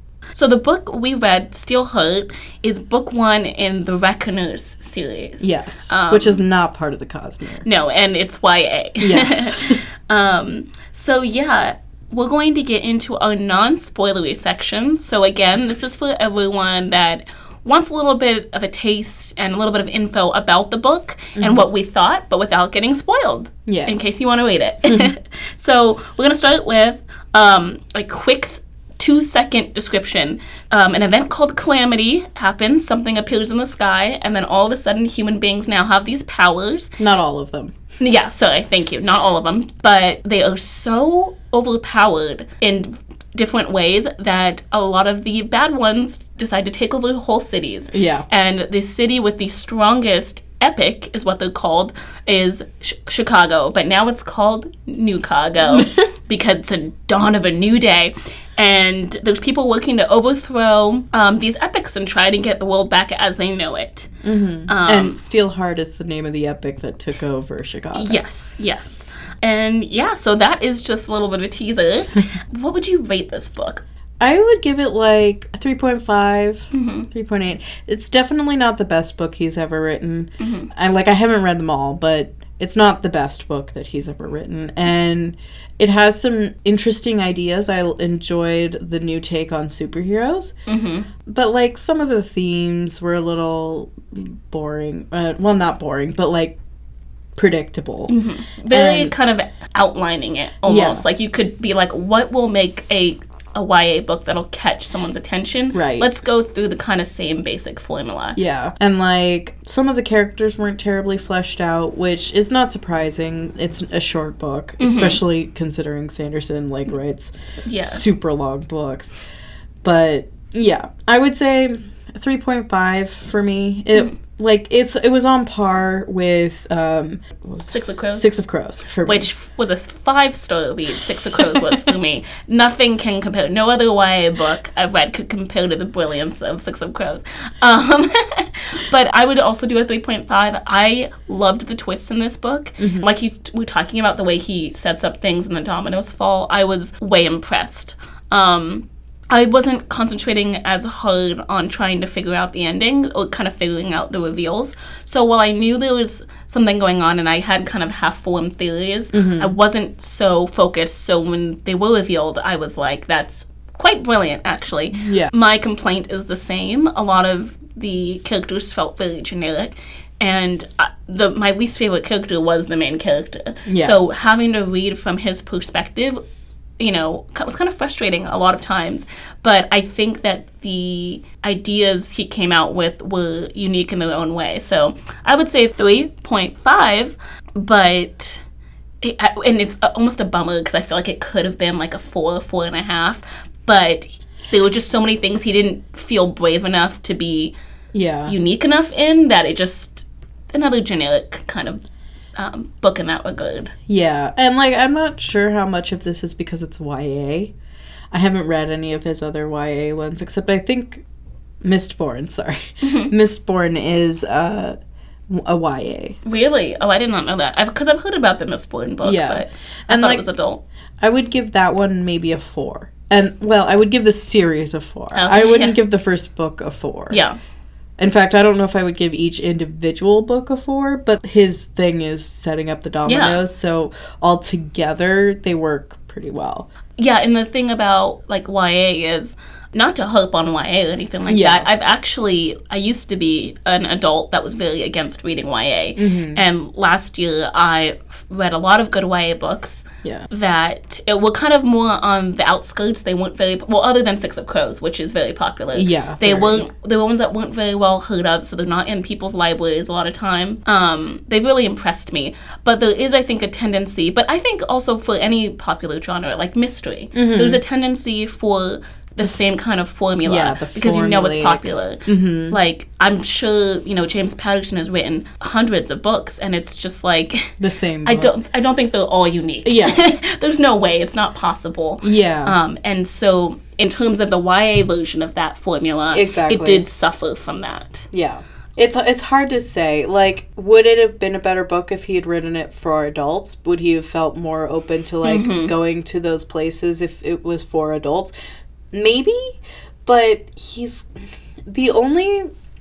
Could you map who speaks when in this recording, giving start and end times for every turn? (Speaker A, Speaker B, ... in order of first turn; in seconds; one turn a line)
Speaker A: 0.3-6.4
Speaker B: 5.4-7.7
Speaker A: 7.6-36.9
Speaker B: 9.0-9.8
Speaker B: 21.4-21.6
Speaker B: 23.7-23.9
Speaker B: 24.9-25.1
Speaker B: 37.0-37.7
Speaker A: 38.0-64.1
Speaker B: 47.9-48.3
Speaker B: 55.6-55.9
Speaker B: 64.2-68.2
Speaker A: 64.7-65.2
Speaker A: 67.9-73.8
Speaker B: 74.2-90.5
Speaker A: 76.7-77.1
Speaker A: 80.4-80.7
Speaker A: 90.7-91.1
Speaker B: 91.2-96.6
Speaker B: 97.3-98.1
Speaker A: 98.1-108.4
Speaker B: 98.7-99.1
Speaker B: 100.6-101.0
Speaker B: 105.7-106.1
Speaker B: 108.3-119.1
Speaker A: 114.8-115.2
Speaker A: 117.7-118.0
Speaker B: 119.8-129.3
Speaker A: 127.7-128.3
Speaker A: 129.0-176.2
Speaker B: 142.8-143.1
Speaker B: 159.1-159.5
Speaker B: 165.0-165.3
Speaker B: 173.7-174.0
Speaker A: 176.8-188.4
Speaker A: 189.0-197.5
Speaker B: 197.9-198.3
Speaker A: 198.3-201.8
Speaker A: 202.4-203.7
Speaker B: 203.9-207.5
Speaker B: 208.1-211.0
Speaker B: 211.6-214.8
Speaker A: 212.8-213.1
Speaker B: 215.3-216.2
Speaker A: 216.2-220.6
Speaker B: 219.0-220.2
Speaker B: 221.0-227.2
Speaker A: 225.1-225.8
Speaker A: 227.1-227.4
Speaker B: 228.0-236.7
Speaker A: 233.1-233.4
Speaker A: 237.0-288.1
Speaker B: 241.3-241.7
Speaker B: 245.9-246.4
Speaker B: 250.0-250.3
Speaker B: 255.7-256.7
Speaker B: 267.1-267.6
Speaker B: 270.2-272.6
Speaker B: 277.6-278.3
Speaker B: 279.6-280.0
Speaker B: 282.0-282.5
Speaker B: 286.1-286.8
Speaker B: 288.1-298.3
Speaker A: 295.2-295.7
Speaker B: 298.9-301.1
Speaker B: 301.7-302.5